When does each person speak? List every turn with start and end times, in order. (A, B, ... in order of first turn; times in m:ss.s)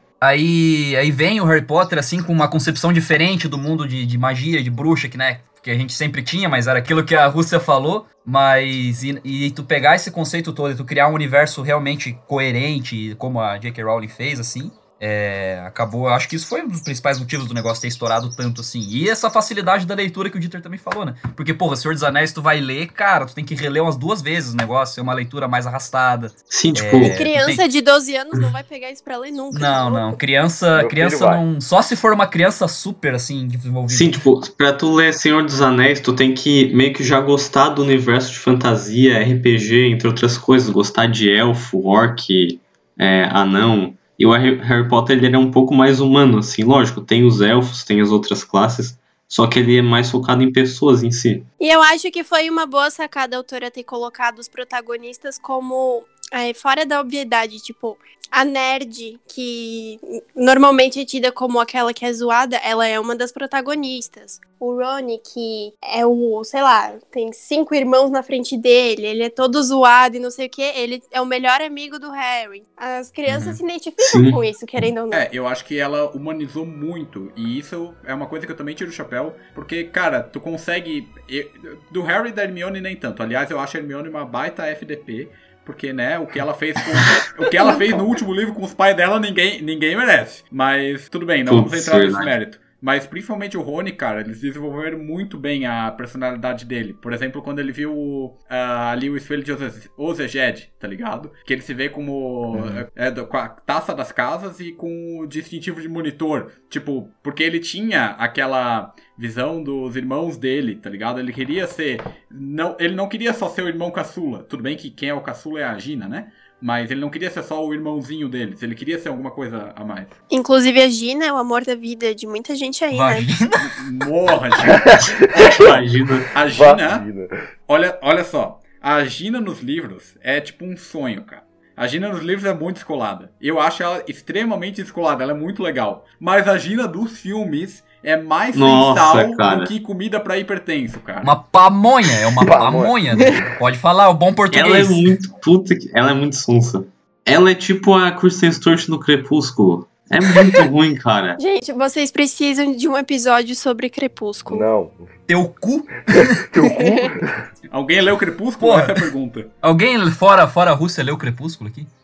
0:00.2-0:27.6 A
0:26.5-0:27.2 B
0:27.0-0:30.2 C
0:29.5-0:34.2 A
0:30.7-0:31.4 D
0:33.9-0:51.5 B
0:51.6-1:15.3 C
1:13.3-1:13.6 A
1:14.0-1:14.4 B
1:15.1-2:00.2 E
1:31.5-1:32.3 B
1:42.5-1:42.8 A
2:00.3-2:03.3 C
2:02.9-2:03.8 A
2:03.6-2:07.0 E
2:04.7-2:05.8 D
2:05.3-2:06.3 B
2:06.5-2:07.3 D
2:07.7-2:21.3 E
2:18.5-2:19.7 B
2:21.2-2:25.0 A
2:22.4-2:23.5 D
2:24.5-2:31.4 B
2:31.4-2:34.7 C
2:34.5-2:35.0 D
2:35.3-2:36.5 A
2:36.1-2:37.3 D
2:36.6-2:37.1 C
2:37.7-2:39.5 E
2:38.6-2:39.1 A
2:39.6-2:41.9 A